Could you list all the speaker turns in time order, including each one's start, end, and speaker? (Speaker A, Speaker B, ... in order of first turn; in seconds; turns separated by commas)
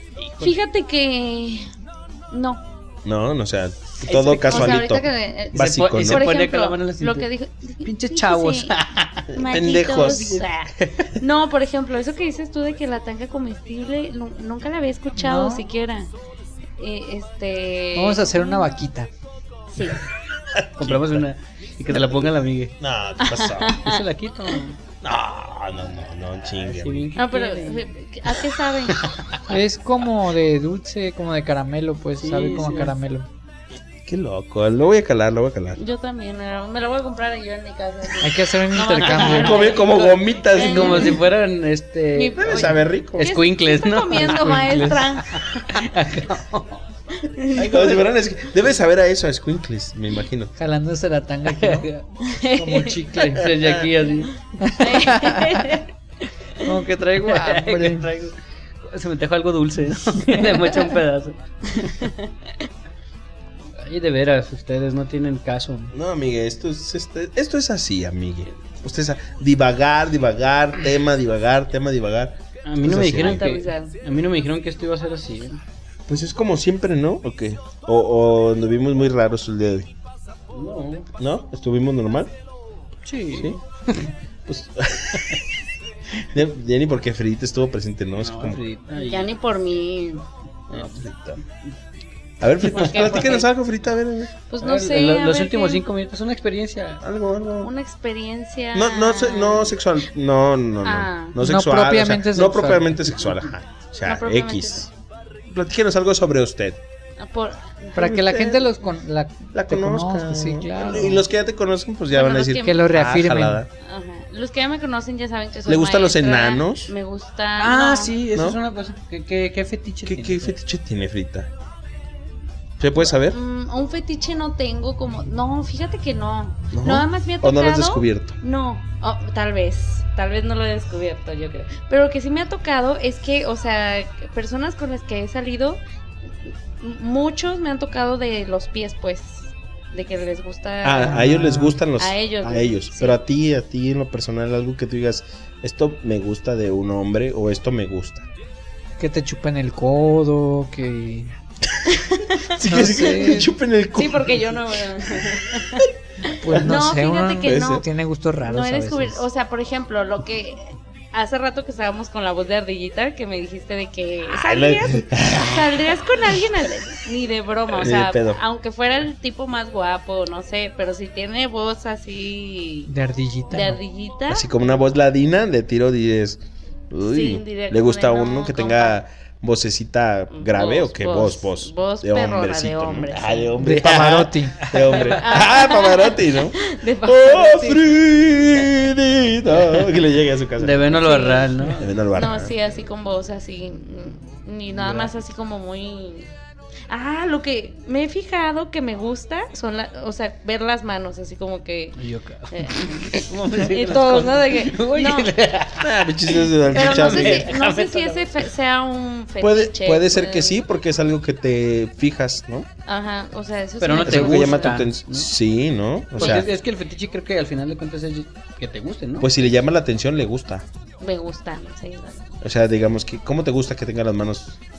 Speaker A: 0.2-0.6, Speaker B: 0.4-1.7, Speaker B: 2.3-2.6, Speaker C: 3.0-6.3, Speaker A: 4.1-4.9, Speaker B: 4.1-8.7, Speaker A: 5.5-7.3, Speaker A: 7.8-9.3, Speaker C: 9.3-10.4, Speaker B: 9.3-16.1, Speaker A: 10.0-11.1, Speaker D: 15.2-15.6, Speaker B: 16.8-18.7, Speaker D: 17.9-19.1, Speaker B: 19.7-20.0, Speaker C: 20.6-21.3, Speaker A: 20.8-22.8, Speaker C: 21.9-23.8, Speaker B: 23.2-24.1, Speaker A: 23.8-24.8, Speaker C: 25.0-27.1, Speaker A: 26.6-29.4, Speaker B: 27.2-29.1, Speaker D: 29.5-33.3, Speaker A: 32.2-32.9, Speaker C: 34.1-35.8, Speaker B: 35.8-41.2, Speaker D: 38.2-39.7, Speaker A: 39.0-46.8, Speaker C: 39.2-41.2, Speaker B: 42.1-45.8, Speaker C: 42.4-43.3, Speaker B: 47.2-47.7, Speaker A: 47.5-48.1, Speaker C: 47.6-50.5, Speaker D: 50.6-51.9, Speaker A: 51.5-54.3, Speaker B: 52.2-53.0, Speaker C: 53.4-53.9, Speaker D: 54.6-55.7, Speaker B: 54.8-55.9, Speaker D: 56.6-58.1, Speaker A: 57.2-62.1, Speaker A: 63.8-65.9, Speaker C: 65.9-73.5, Speaker A: 72.7-75.6, Speaker B: 73.2-74.0, Speaker C: 76.1-79.9, Speaker A: 80.5-81.1, Speaker C: 81.2-82.3, Speaker A: 83.0-84.1, Speaker C: 84.5-85.4, Speaker C: 86.2-88.6, Speaker A: 88.2-89.3, Speaker B: 88.9-90.2, Speaker C: 90.7-91.4, Speaker C: 92.4-94.3, Speaker B: 92.7-93.5, Speaker A: 92.8-93.3, Speaker B: 94.5-95.8, Speaker A: 94.6-97.0, Speaker C: 97.0-97.7, Speaker B: 97.6-99.8, Speaker C: 98.7-104.9, Speaker B: 100.8-101.4, Speaker D: 101.4-103.0, Speaker B: 104.0-104.8, Speaker C: 105.5-106.8, Speaker B: 107.2-108.0, Speaker D: 108.0-111.2, Speaker C: 108.0-108.7, Speaker C: 109.5-113.7, Speaker B: 112.1-112.9, Speaker D: 112.6-113.6, Speaker B: 113.8-118.2, Speaker C: 115.7-116.9, Speaker A: 117.6-120.6, Speaker C: 118.3-118.6, Speaker C: 120.1-121.5, Speaker C: 122.8-123.4, Speaker B: 123.0-135.8, Speaker C: 126.7-128.4, Speaker B: 136.8-141.3, Speaker C: 140.8-148.2, Speaker D: 141.0-141.8, Speaker B: 142.0-143.2, Speaker D: 149.0-151.3, Speaker B: 151.9-152.3, Speaker C: 152.6-154.5, Speaker D: 152.6-153.5, Speaker B: 154.0-157.8, Speaker D: 156.4-159.2, Speaker C: 157.4-157.8, Speaker B: 158.5-172.9, Speaker C: 164.3-165.8, Speaker C: 167.7-168.4, Speaker D: 172.9-173.8, Speaker B: 173.5-174.5, Speaker C: 174.3-191.1, Speaker B: 177.1-179.0, Speaker B: 180.3-183.6, Speaker D: 183.6-184.6, Speaker A: 184.6-185.3, Speaker B: 185.0-187.9, Speaker A: 189.5-190.0, Speaker A: 190.6-191.9, Speaker B: 190.9-196.3, Speaker C: 191.8-192.6, Speaker A: 194.7-195.1, Speaker B: 196.9-202.0, Speaker A: 202.0-208.4, Speaker B: 202.5-205.3, Speaker C: 205.8-207.5, Speaker B: 206.7-210.6, Speaker C: 209.4-212.7, Speaker B: 212.9-214.8, Speaker A: 213.8-215.3, Speaker C: 214.0-216.5, Speaker A: 216.2-219.3, Speaker B: 216.2-216.5, Speaker C: 219.2-220.7, Speaker B: 221.0-222.3, Speaker C: 222.4-224.6